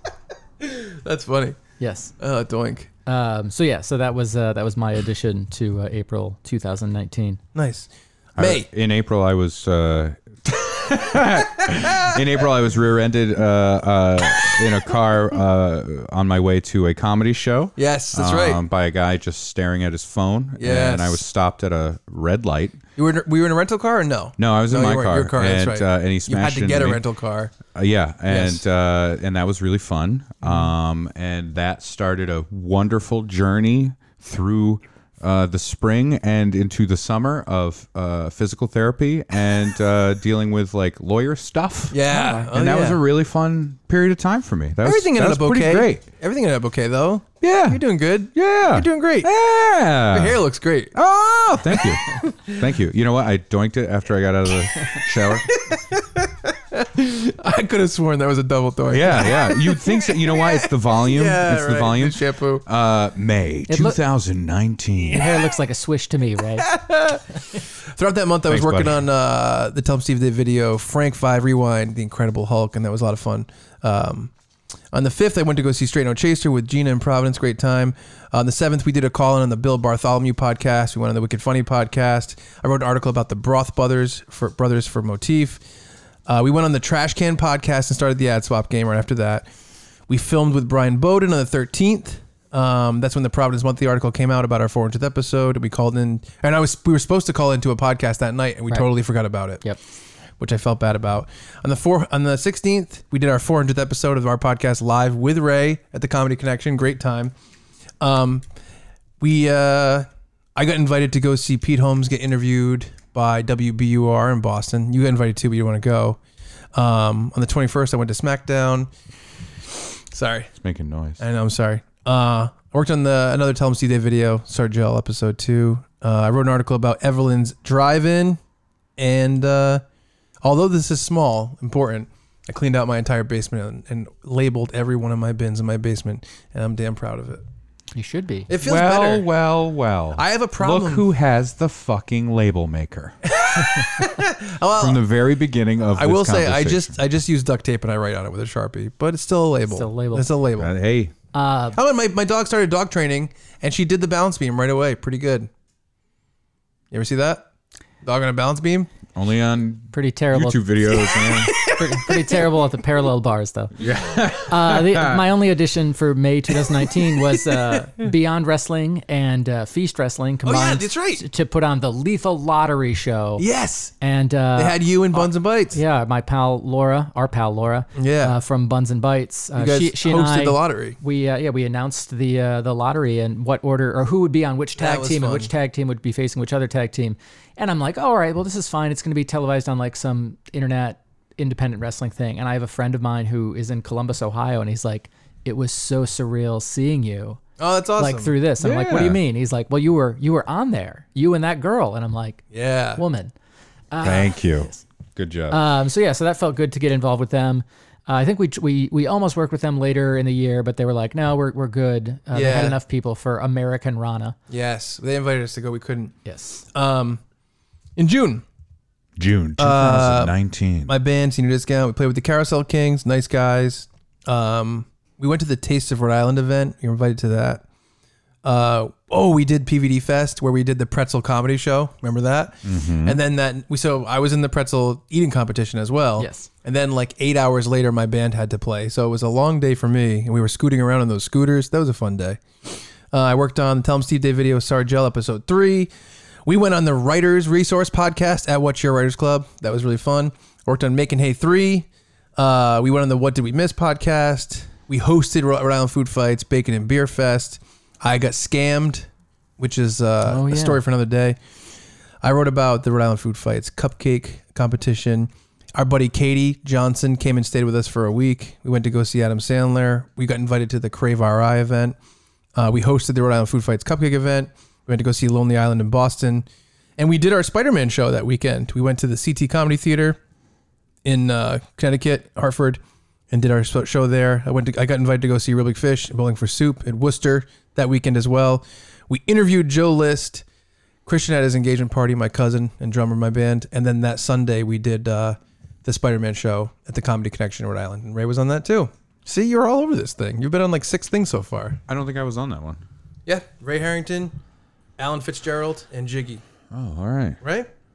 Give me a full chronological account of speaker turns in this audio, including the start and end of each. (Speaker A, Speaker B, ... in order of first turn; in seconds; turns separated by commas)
Speaker A: 0.6-1.6, Speaker B: 1.8-2.1, Speaker A: 2.2-2.9, Speaker B: 3.1-7.4, Speaker A: 7.5-8.7, Speaker C: 8.4-22.8, Speaker A: 17.8-18.6, Speaker A: 20.6-21.2, Speaker A: 23.0-27.6, Speaker C: 24.4-27.0, Speaker C: 27.7-46.0, Speaker A: 28.3-28.6, Speaker A: 41.9-43.0, Speaker A: 44.8-49.3, Speaker C: 47.4-47.8, Speaker C: 48.3-50.4, Speaker A: 50.1-51.0, Speaker C: 50.9-55.5, Speaker A: 51.7-52.6, Speaker A: 55.5-62.6, Speaker C: 58.9-65.3, Speaker B: 63.7-64.0, Speaker B: 65.1-66.7, Speaker A: 66.6-67.2, Speaker A: 68.0-74.3, Speaker C: 68.5-69.0, Speaker A: 74.9-85.6, Speaker A: 86.3-89.5, Speaker A: 90.1-99.6, Speaker A: 100.4-107.3, Speaker A: 108.0-108.4, Speaker A: 109.2-116.2, Speaker A: 116.7-118.9, Speaker A: 120.1-120.5, Speaker C: 120.6-121.2, Speaker A: 121.2-128.4, Speaker A: 129.0-129.8, Speaker A: 130.4-137.4, Speaker B: 137.9-138.5, Speaker A: 138.5-139.3, Speaker C: 138.6-143.9, Speaker A: 140.2-141.1, Speaker A: 143.2-145.0, Speaker C: 144.8-147.0, Speaker A: 145.9-150.7, Speaker B: 149.7-150.3, Speaker C: 150.6-151.1, Speaker B: 151.3-151.8, Speaker A: 151.7-155.5, Speaker A: 156.9-157.5, Speaker A: 158.0-158.9, Speaker C: 159.2-161.5, Speaker B: 159.9-163.8, Speaker A: 161.4-162.4, Speaker C: 163.8-165.2, Speaker B: 164.4-173.4, Speaker A: 167.3-167.8, Speaker A: 170.4-171.2, Speaker A: 173.4-173.9, Speaker B: 174.0-197.4, Speaker A: 174.6-175.8, Speaker A: 178.0-178.4, Speaker A: 179.6-181.0, Speaker A: 184.8-185.5, Speaker A: 197.6-198.3, Speaker B: 198.0-203.3, Speaker C: 198.6-199.2, Speaker A: 202.5-203.0, Speaker B: 203.9-204.8, Speaker C: 204.0-205.6, Speaker B: 205.5-214.4, Speaker A: 212.3-212.8, Speaker A: 214.5-216.1, Speaker B: 216.2-216.7, Speaker A: 216.7-217.2, Speaker A: 218.0-218.4, Speaker C: 219.2-220.9, Speaker A: 219.6-220.3, Speaker A: 220.9-227.6, Speaker A: 228.4-245.9, Speaker C: 232.6-233.2, Speaker B: 236.2-236.5, Speaker A: 246.5-261.4, Speaker B: 260.3-260.8, Speaker A: 262.2-272.0, Speaker A: 272.6-276.5, Speaker A: 277.0-280.2, Speaker A: 281.0-282.8, Speaker A: 283.3-290.4, Speaker A: 291.1-301.8, Speaker C: 301.9-302.8, Speaker A: 303.3-304.3, Speaker A: 305.0-306.4, Speaker C: 306.7-307.4, Speaker A: 307.4-307.7